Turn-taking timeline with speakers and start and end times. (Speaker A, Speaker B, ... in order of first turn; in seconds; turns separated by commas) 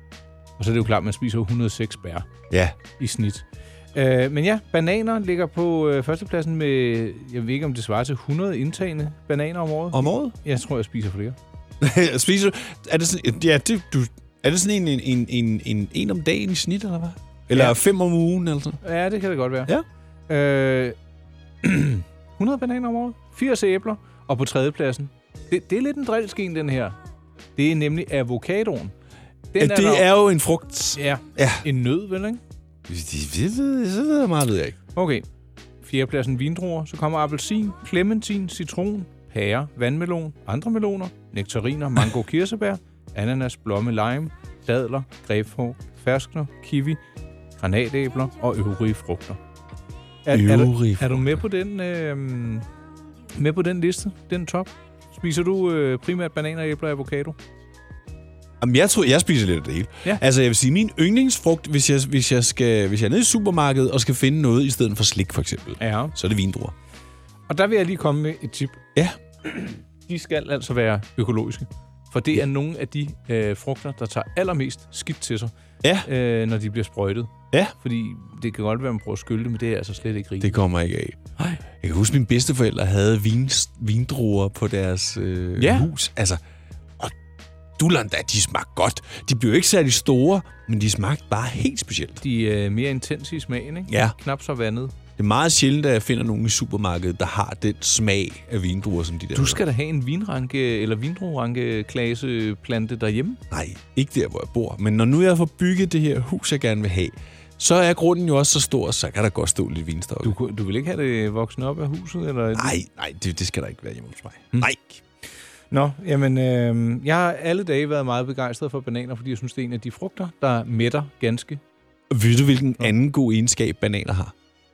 Speaker A: 0.6-2.3, Speaker B: 2.5-2.8, Speaker A: 3.0-11.4, Speaker B: 9.9-10.3, Speaker B: 11.8-18.8, Speaker A: 18.8-19.7, Speaker A: 20.3-21.0, Speaker A: 21.6-27.0, Speaker A: 27.6-28.9, Speaker A: 29.5-30.1, Speaker B: 29.6-31.6, Speaker A: 31.0-32.4, Speaker B: 32.9-34.8, Speaker A: 35.0-35.2, Speaker A: 35.8-47.0, Speaker A: 47.6-49.4, Speaker A: 50.2-52.7, Speaker B: 50.3-51.4, Speaker A: 53.4-57.4, Speaker B: 58.6-66.7, Speaker A: 65.8-66.1, Speaker A: 67.5-68.8, Speaker A: 69.4-75.5, Speaker B: 75.8-76.1, Speaker A: 76.0-80.6, Speaker B: 80.4-86.4, Speaker A: 85.6-85.9, Speaker B: 87.8-92.2, Speaker A: 92.2-94.9, Speaker B: 93.9-94.2, Speaker B: 95.2-99.6, Speaker A: 99.3-103.4, Speaker B: 103.5-110.4, Speaker A: 110.2-112.8, Speaker B: 112.5-115.0, Speaker A: 115.7-121.6, Speaker B: 122.1-124.3